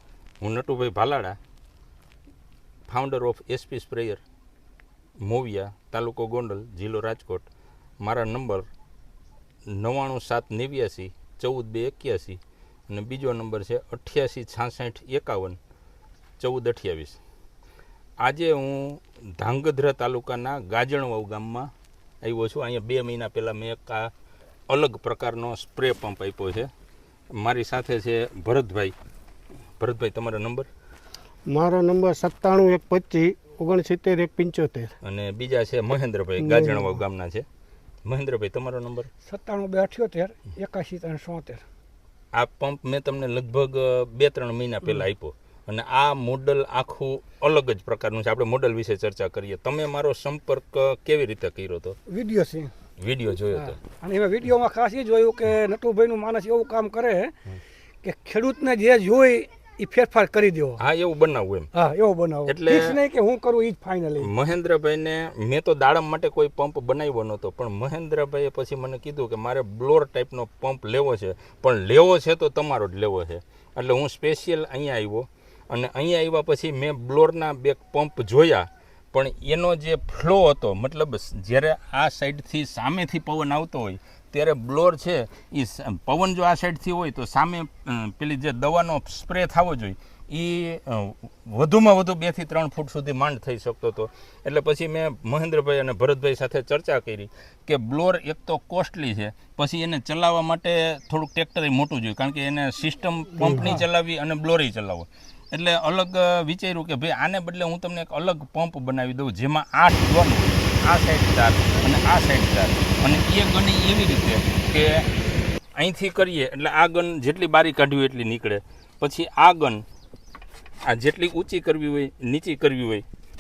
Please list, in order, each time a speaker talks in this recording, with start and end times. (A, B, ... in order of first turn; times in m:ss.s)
0:00.4-0:01.4 A
0:02.9-0:04.2 A
0:05.2-0:07.5 A
0:08.0-0:08.7 A
0:09.7-0:15.6 A
0:16.4-0:17.2 A
0:18.2-0:21.7 A
0:22.2-0:24.1 A
0:24.7-0:26.7 A
0:27.4-0:29.0 A
0:29.8-0:30.7 A
0:31.5-0:34.9 B
0:35.0-0:37.5 A
0:36.4-0:36.9 B
0:38.1-0:39.1 A
0:39.3-0:41.6 C
0:42.3-0:52.0 A
0:52.1-0:52.7 C
0:53.0-0:53.8 A
0:53.5-0:57.3 C
0:58.0-1:00.8 C
1:00.8-1:01.7 A
1:01.7-1:04.3 C
1:02.5-1:02.9 A
1:04.2-1:55.1 A
1:43.4-1:43.7 B
1:43.5-1:43.8 C
1:55.8-1:59.8 A
2:00.9-2:03.0 A